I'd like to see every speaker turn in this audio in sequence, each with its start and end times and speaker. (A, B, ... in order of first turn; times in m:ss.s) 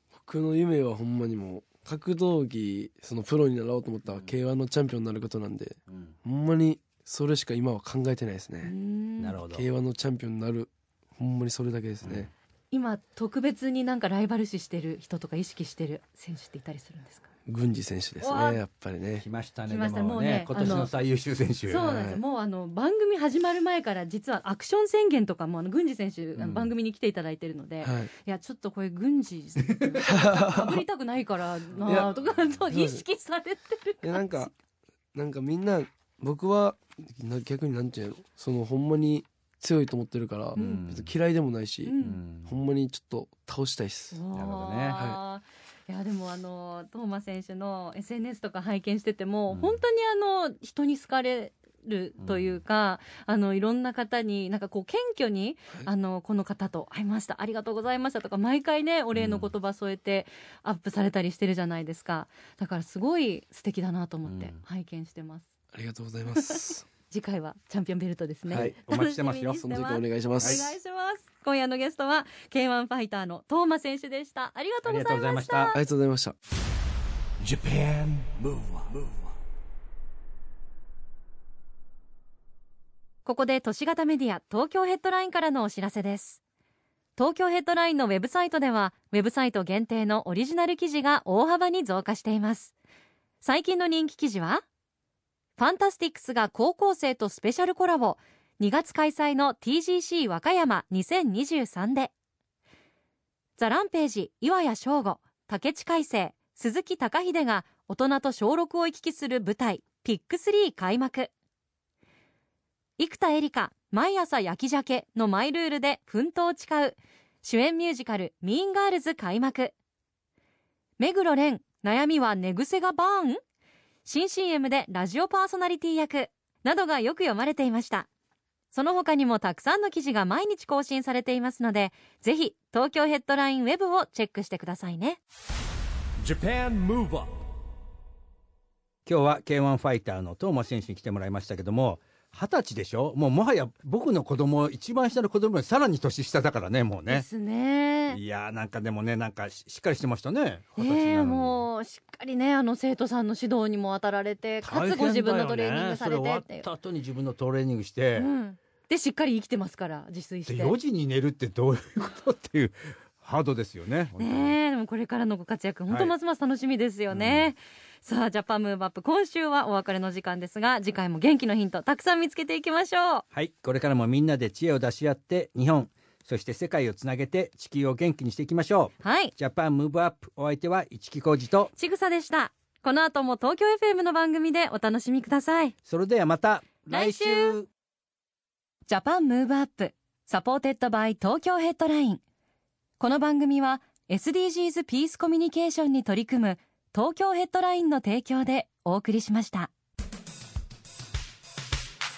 0:00.1-0:08.7 A
0:05.9-0:06.1 B
0:08.6-0:09.4 C
0:09.2-0:09.6 B
0:09.5-0:12.3 A
0:12.0-0:12.3 B
0:12.7-0:17.2 C
0:17.5-0:19.2 A
0:18.2-0:18.6 C
0:19.2-0:21.8 B
0:19.7-0:20.9 C
0:21.7-0:34.5 C
0:21.8-0:22.2 A
0:26.4-0:26.7 B
0:27.8-0:28.1 A
0:29.6-0:30.0 B
0:30.0-0:30.8 A
0:31.8-0:33.0 A
0:32.1-0:32.6 B
0:34.0-0:34.5 A
0:35.1-0:44.2 A
0:40.6-0:40.9 C
0:40.6-0:41.1 B
0:41.8-0:42.2 C
0:42.0-0:42.5 B
0:44.1-1:05.5 C
0:44.3-0:45.0 B
0:49.5-0:49.8 B
0:52.2-0:52.6 B
0:59.1-0:59.5 B
1:04.2-1:04.6 B
1:05.7-1:06.8 A
1:06.3-1:15.8 C
1:08.5-1:09.7 B
1:09.6-1:10.6 A
1:10.4-1:10.7 B
1:14.8-1:15.7 B
1:15.7-1:16.3 A
1:17.4-1:19.4 D
1:23.2-1:26.4 C
1:27.2-1:32.7 C
1:33.4-1:34.6 C
1:35.6-1:42.1 C
1:43.6-1:51.3 C
1:53.0-1:59.7 C
2:01.0-2:03.4 C
2:04.0-2:08.1 C
2:08.7-2:15.2 C
2:16.2-2:17.4 D
2:19.0-2:27.3 B
2:27.1-2:28.2 C
2:28.1-2:31.6 B
2:30.8-2:36.7 C
2:34.6-2:38.3 B
2:38.2-2:40.8 C
2:40.5-2:44.6 B
2:44.2-2:53.2 C
2:47.1-2:47.5 B
2:53.3-3:01.7 B
2:59.0-2:59.3 C
3:01.7-3:05.7 C
3:05.9-3:07.7 B
3:06.9-3:07.6 C
3:08.9-3:12.2 C
3:13.0-3:19.7 C